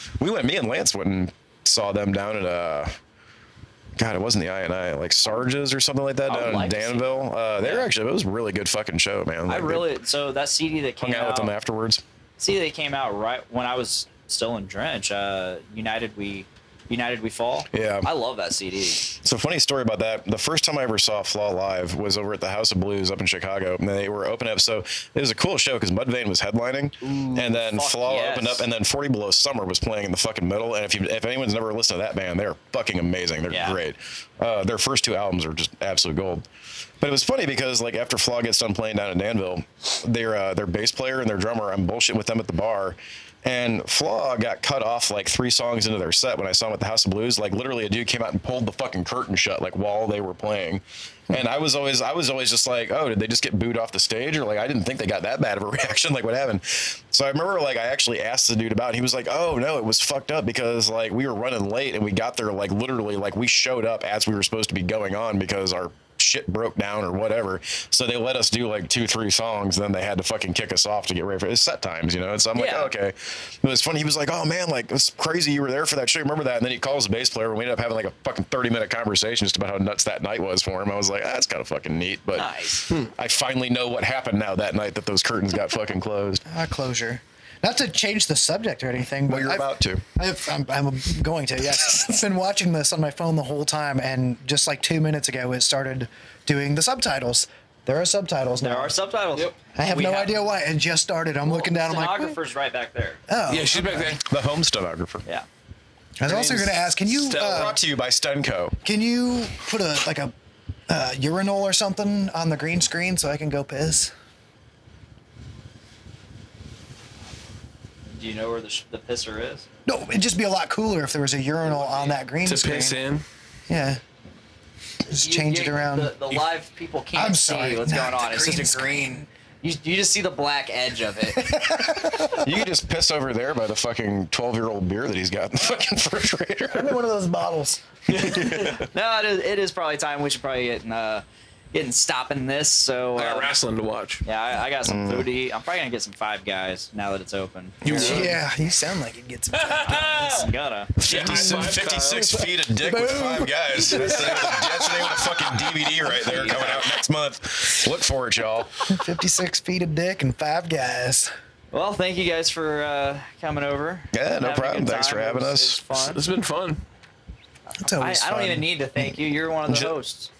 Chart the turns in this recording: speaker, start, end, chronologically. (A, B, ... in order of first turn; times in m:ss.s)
0:00.2-0:03.0 A
0:04.0-0:09.9 A
0:06.2-0:07.9 B
0:09.5-0:11.5 B
0:11.0-0:12.0 A
0:12.4-0:19.1 B
0:17.7-0:18.1 A
0:19.2-0:36.4 A
0:27.0-0:28.7 B
0:33.5-0:33.8 B
0:37.0-1:26.4 A
1:12.5-1:12.9 B
1:22.3-1:22.9 B
1:26.4-1:39.0 C
1:29.2-1:30.0 A
1:38.6-1:40.4 B
1:39.7-1:42.4 C
1:41.4-1:43.2 B
1:43.3-1:44.2 C
1:43.5-1:44.2 D
1:44.2-1:45.2 A
1:46.2-1:47.8 C
1:46.2-1:47.8 D
1:47.3-1:48.8 A
1:48.8-1:50.3 C
1:50.9-1:54.1 C
1:58.1-1:59.7 B
1:59.8-2:03.0 C
2:01.6-2:02.2 B
2:02.4-2:03.2 D
2:03.7-2:04.0 C
2:05.0-2:06.1 C
2:05.1-2:12.0 B
2:07.1-2:09.2 C
2:11.4-2:12.4 C
2:12.3-2:17.0 A
2:16.7-2:18.4 C
2:18.2-2:23.5 B
2:18.2-2:18.8 A
2:23.2-2:24.2 D
2:24.2-2:28.4 B
2:24.8-2:25.3 A
2:27.8-2:28.4 D
2:27.9-2:35.2 C
2:29.5-2:32.5 D
2:29.8-2:30.9 B
2:31.0-2:38.9 A
2:33.7-2:35.6 D
2:36.0-2:36.8 C
2:36.1-2:36.8 B
2:38.9-2:41.3 C
2:41.7-2:46.2 B
2:44.1-2:45.8 A
2:46.1-2:46.8 D
2:47.6-2:50.3 B
2:47.8-2:48.6 C